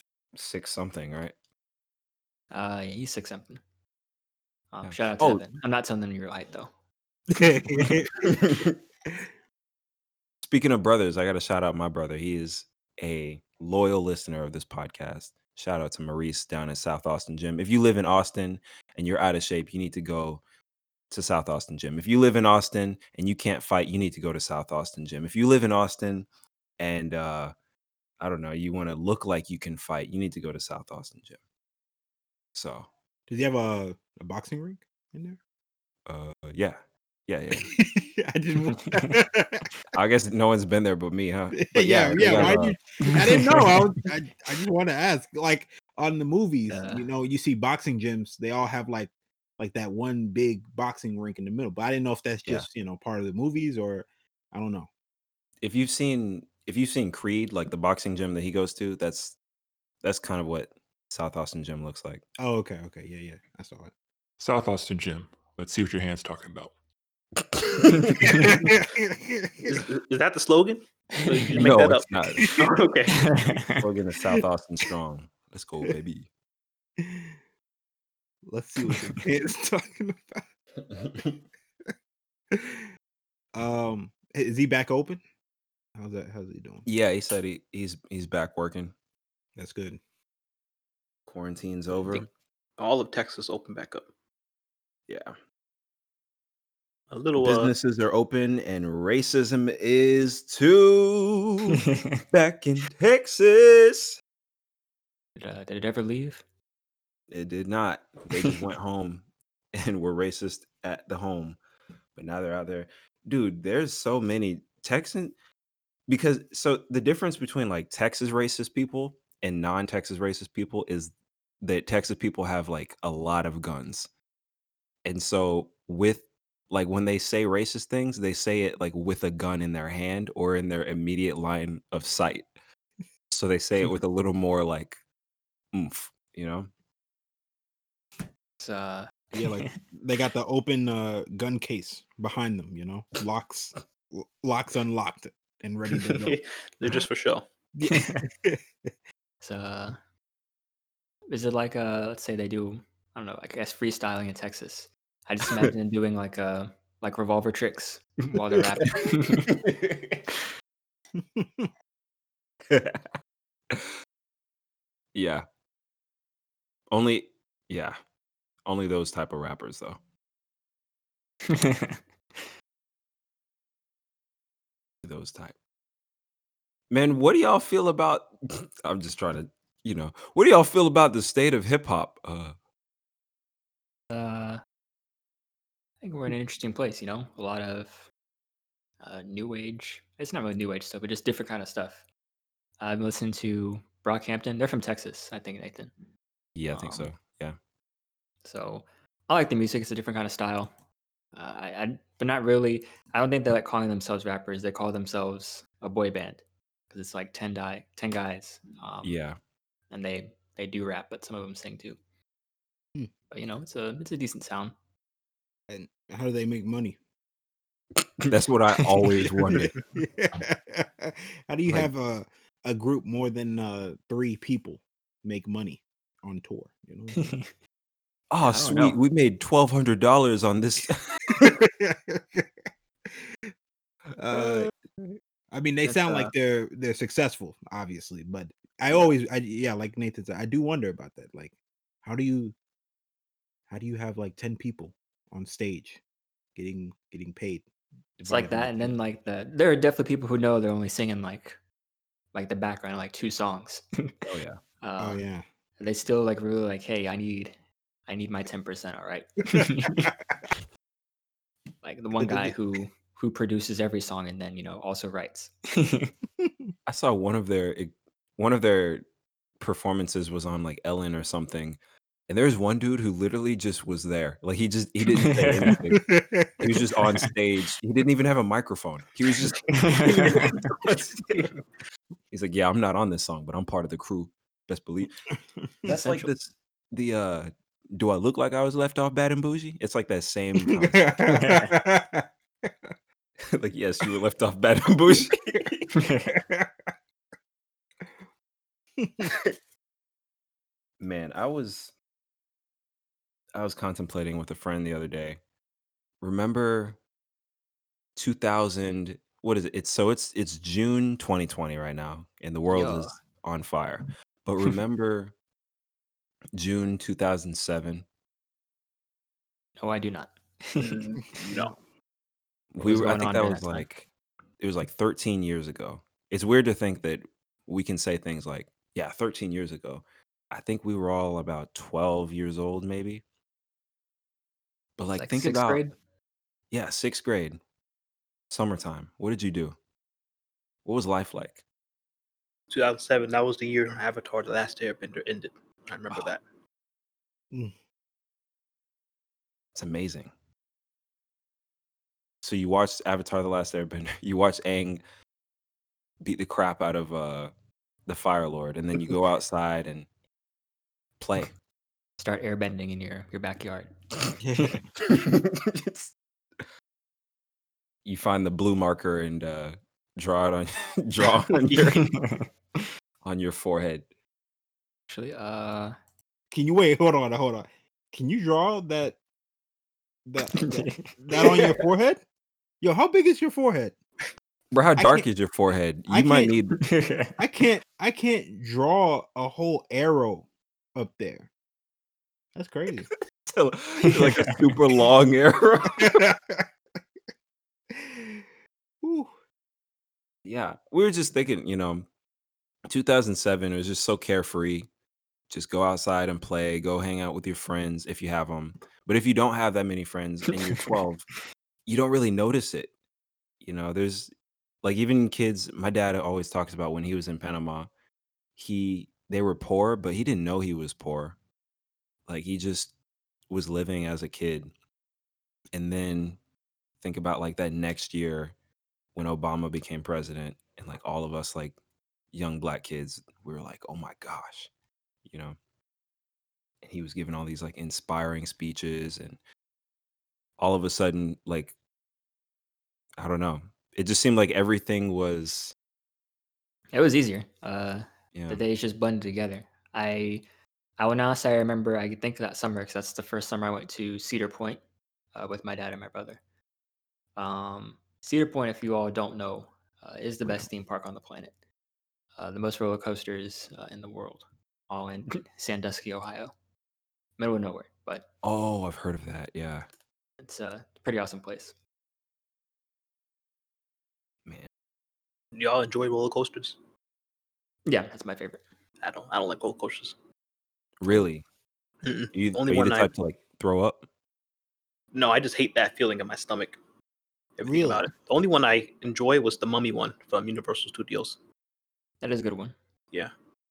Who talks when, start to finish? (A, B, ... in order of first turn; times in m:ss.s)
0:00.3-0:01.3 A
0:02.5-0:03.6 B
0:04.7-0:06.7 B
0:04.8-0:05.4 A
0:07.3-0:08.3 C
0:07.8-0:08.7 A
0:10.4-0:20.4 A
0:21.1-0:26.2 A
0:26.8-0:27.5 A
0:28.2-0:31.4 A
0:32.5-0:32.9 A
0:33.3-0:35.4 C
0:36.0-0:37.7 A
0:37.6-0:39.7 C
0:38.7-0:39.1 B
0:39.9-0:42.8 A
0:41.6-0:54.9 C
0:43.0-0:43.7 B
0:46.7-0:47.0 B
0:55.6-0:59.4 A
1:00.0-1:02.2 A
1:02.4-1:03.9 C
1:04.4-1:06.7 D
1:07.6-1:08.2 A
1:07.9-1:08.3 B
1:08.2-1:09.8 C
1:09.6-1:13.2 E
1:11.5-1:12.6 A
1:13.2-1:13.8 B
1:13.6-1:16.3 A
1:17.0-1:17.3 C
1:18.4-1:20.4 C
1:18.9-1:19.2 B
1:20.9-1:21.2 A
1:22.5-1:22.8 C
1:23.5-1:25.2 C
1:26.0-1:26.8 C
1:26.8-1:28.9 A
1:29.6-1:30.0 C
1:31.3-1:32.3 A
1:32.8-1:34.1 E
1:35.1-1:35.3 A
1:37.1-1:37.7 E
1:37.4-1:44.2 A
1:45.4-1:46.4 B
1:47.3-1:51.6 A
1:52.2-1:55.3 A
1:56.1-2:04.1 A
2:05.0-2:12.4 A
2:13.3-2:15.0 A
2:15.7-2:16.7 A
2:18.6-2:19.8 B
2:19.3-2:26.4 C
2:26.2-2:27.4 E
2:27.7-2:28.6 C
2:27.9-2:28.2 B
2:29.4-2:30.0 B
2:31.3-2:39.5 B
2:41.2-2:41.7 C
2:42.7-2:43.0 A
2:45.1-2:45.4 A
2:46.9-2:48.0 A
2:48.6-2:50.0 A
2:51.5-2:52.0 B
2:55.0-2:55.5 A
2:56.9-3:02.5 A
3:04.1-3:04.6 B
3:06.0-3:08.1 B
3:09.0-3:12.0 B
3:12.8-3:15.9 B
3:16.6-3:17.6 A
3:16.7-3:17.1 B
3:18.4-3:20.7 B
3:21.3-3:29.2 B
3:29.0-3:29.4 A
3:29.9-3:32.0 B
3:33.3-3:34.7 B
3:35.7-3:37.0 C
3:38.2-3:39.8 A
3:38.8-3:39.1 B
3:39.9-3:47.2 C
3:47.2-3:47.4 B
3:48.3-3:51.6 A
3:48.4-3:49.0 B
3:51.3-3:52.5 C
3:54.2-3:54.7 C
3:55.5-4:02.5 C
3:55.8-3:56.3 B
4:03.7-4:06.0 C
4:06.6-4:09.0 C
4:08.2-4:11.6 B
4:12.3-4:14.2 B
4:14.2-4:14.6 A
4:14.8-4:15.2 B
4:15.0-4:15.4 C
4:15.8-4:20.1 B
4:19.6-4:20.1 C
4:21.8-4:26.1 B
4:22.2-4:22.5 C
4:26.4-4:26.7 C
4:26.8-4:29.0 A
4:29.6-4:36.0 A
4:35.1-4:35.8 B
4:35.9-4:36.7 C
4:36.6-4:41.2 A
4:39.7-4:40.6 B
4:42.3-4:45.1 A
4:45.6-4:45.9 C
4:45.8-4:51.4 A
4:45.9-4:46.3 B
4:50.7-4:52.7 C
4:51.3-4:51.8 B
4:53.5-4:55.8 A
4:55.1-4:55.7 C
4:55.9-4:56.3 B
4:56.3-4:56.7 C
4:59.0-4:59.3 C
5:01.0-5:01.9 A
5:03.5-5:05.4 A
5:06.2-5:07.0 A
5:08.2-5:15.3 A
5:12.7-5:13.1 B
5:16.5-5:18.0 A
5:19.8-5:21.0 B
5:20.8-5:21.7 E
5:22.7-5:24.1 A
5:22.8-5:23.8 B
5:24.6-5:33.2 A
5:35.0-5:35.8 A
5:35.2-5:35.9 B
5:36.7-5:37.6 A
5:38.5-5:39.8 A
5:40.8-5:41.6 A
5:42.7-5:46.4 E
5:49.7-5:50.3 A
5:52.4-5:55.0 A
5:56.2-5:57.5 A
5:58.0-6:00.1 A
6:01.2-6:01.5 A
6:02.2-6:04.0 B
6:04.4-6:04.8 C
6:05.0-6:06.1 A
6:08.0-6:12.1 A
6:12.0-6:12.4 B
6:13.2-6:14.1 A
6:15.1-6:15.9 B
6:16.5-6:19.2 C
6:20.2-6:22.2 C
6:20.6-6:21.6 B
6:22.8-6:24.0 C
6:24.7-6:26.8 A
6:25.0-6:25.2 C
6:26.1-6:26.6 C
6:26.8-6:27.4 B
6:27.4-6:31.5 C
6:32.5-6:33.1 C
6:33.5-6:36.3 A
6:34.1-6:34.5 B
6:36.0-6:36.6 C
6:37.9-6:38.4 C
6:39.0-6:39.3 C
6:40.4-6:42.0 A
6:42.9-6:44.9 A
6:45.5-6:51.3 A
6:51.8-6:52.9 A
6:53.6-6:54.3 A
6:54.8-6:57.9 A
6:58.6-7:01.4 A
7:02.3-7:02.9 A
7:03.5-7:04.7 A
7:05.7-7:06.4 A
7:07.0-7:08.5 A
7:09.1-7:11.8 A
7:12.3-7:14.7 A
7:15.2-7:15.6 A
7:16.8-7:19.4 A
7:20.6-7:21.7 A
7:23.2-7:25.7 A
7:26.9-7:30.4 B
7:28.3-7:28.6 A
7:31.0-7:34.8 B
7:35.3-7:36.4 B
7:37.4-7:41.5 B
7:42.4-7:46.5 B
7:47.4-7:48.2 B
7:48.4-7:49.8 A
7:50.4-7:51.7 B
7:55.5-7:56.8 E
7:57.8-7:58.6 B
7:59.0-8:00.1 E
8:01.0-8:01.4 A
8:02.0-8:03.1 E
8:02.3-8:04.0 A
8:05.1-8:06.8 E
8:07.6-8:11.4 E
8:07.6-8:08.1 C
8:12.2-8:12.7 B